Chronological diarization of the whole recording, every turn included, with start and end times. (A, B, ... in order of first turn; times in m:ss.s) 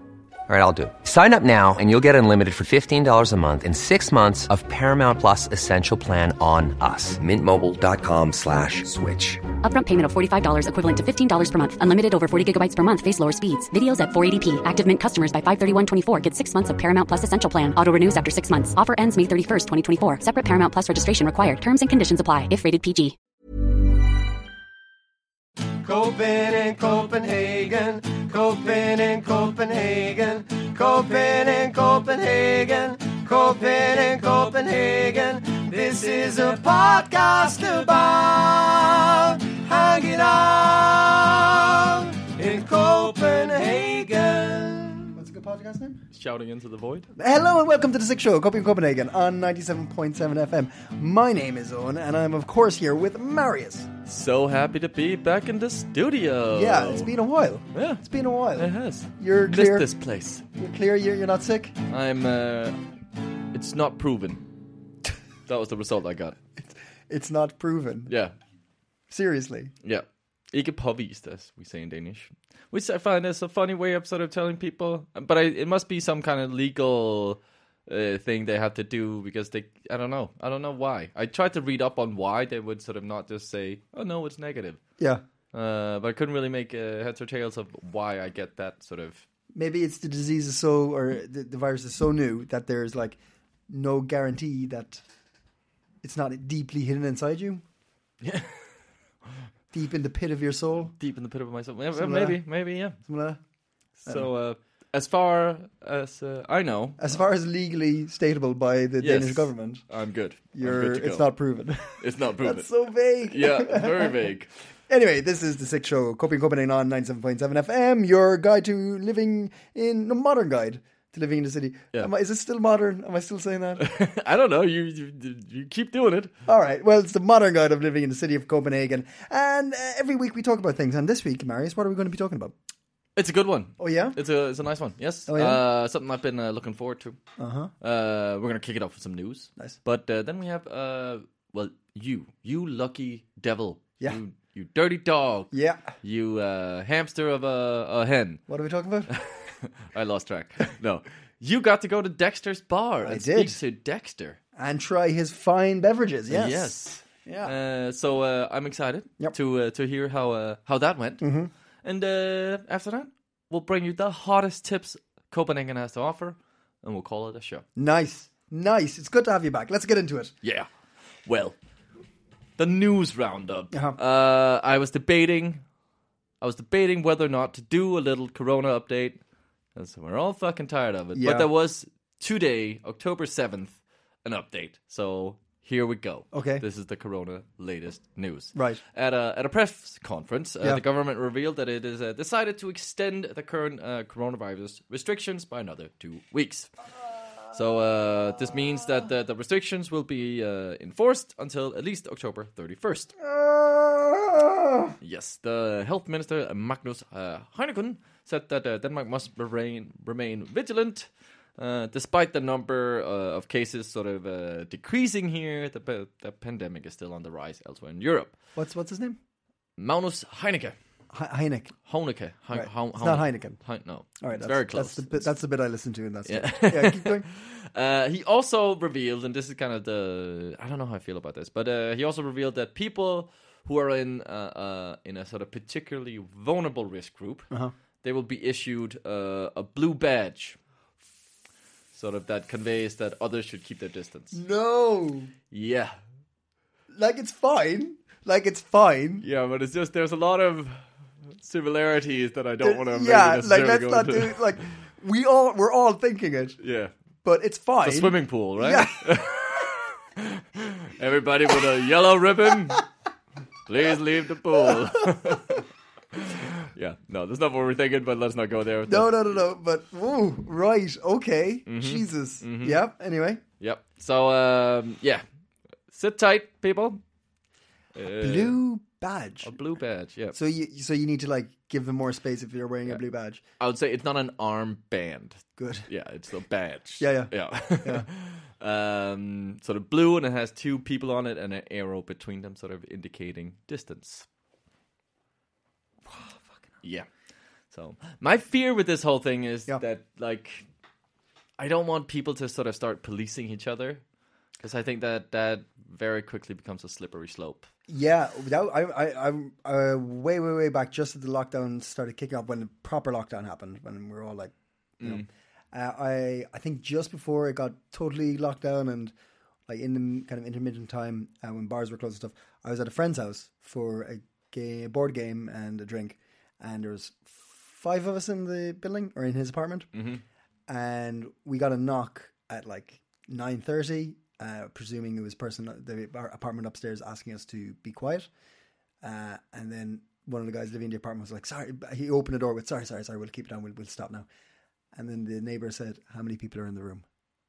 0:00.5-0:09.4 A
0:09.6-0:23.2 B
0:25.8-0:45.2 C
0:45.1-0:46.0 D
0:46.1-0:47.1 E
0:47.1-0:53.9 D
0:54.1-0:57.1 E
0:56.5-0:59.9 D
0:57.7-0:58.0 E
0:58.6-1:00.4 E
1:00.6-1:01.8 D
1:01.9-1:02.8 E
1:03.5-1:04.4 E
1:05.5-1:06.4 E
1:06.6-1:08.1 D
1:08.1-1:08.3 E
1:09.1-1:09.7 D
1:09.8-1:24.8 E
1:25.5-1:29.2 E
1:29.5-1:33.2 D
1:33.7-1:35.0 D
1:36.0-1:37.6 D
1:38.2-1:38.7 E
1:39.7-1:40.9 D
1:41.0-1:43.0 E
1:41.9-1:43.4 D
1:44.0-1:47.2 E
1:47.0-1:49.8 D
1:49.0-1:51.3 E
1:50.6-1:54.3 D
1:52.0-1:52.7 E
1:53.2-1:54.5 E
1:54.9-2:03.9 D
2:03.8-2:06.3 E
2:06.5-2:12.5 D
2:13.2-2:17.2 E
2:13.8-2:14.2 D
2:15.3-2:15.6 D
2:17.4-2:17.7 D
2:17.8-2:28.4 E
2:25.5-2:25.9 D
2:28.5-2:29.1 D
2:29.1-2:34.4 E
2:33.0-2:33.6 D
2:34.6-2:37.6 D
2:36.3-2:41.3 E
2:41.2-2:41.5 D
2:41.8-2:47.6 E
2:47.8-2:50.3 D
2:50.4-2:50.7 E
2:51.3-2:51.6 E
2:52.6-2:55.6 E
2:53.7-2:54.0 D
2:56.4-2:59.2 E
2:59.8-3:16.7 E
3:01.2-3:01.5 D
3:06.3-3:06.6 D
3:08.6-3:08.8 D
3:17.5-3:23.1 E
3:23.2-3:24.9 D
3:25.0-3:38.3 E
3:38.6-3:39.2 D
3:39.8-3:40.8 E
3:41.1-3:41.8 D
3:41.9-3:45.3 E
3:42.5-3:43.6 D
3:44.2-3:47.3 D
3:46.3-3:57.5 E
3:58.0-4:00.6 E
4:01.9-4:04.4 E
4:04.3-4:05.3 D
4:05.5-4:06.0 E
4:06.9-4:09.2 D
4:09.2-4:10.8 E
4:11.4-4:14.6 E
4:12.6-4:16.6 D
4:16.6-4:16.9 E
4:17.2-4:19.2 D
4:17.8-4:22.8 E
4:23.7-4:25.6 E
4:26.1-4:29.4 E
4:28.9-4:33.4 D
4:31.7-4:32.8 E
4:33.6-4:35.2 E
4:35.9-4:37.0 E
4:38.0-4:38.6 E
4:38.2-4:39.6 D
4:39.4-4:40.4 E
4:40.3-4:43.4 D
4:43.6-4:54.3 E
4:45.6-4:45.9 D
4:47.0-4:48.1 D
4:56.1-4:56.6 D
4:56.8-4:57.1 E
4:57.7-5:00.7 E
5:01.6-5:04.0 E
5:04.6-5:07.7 E
5:07.9-5:19.1 D
5:15.0-5:15.3 E
5:19.7-5:29.9 D
5:29.9-5:30.2 E
5:30.7-5:38.3 D
5:39.0-5:44.3 D
5:45.0-5:47.0 D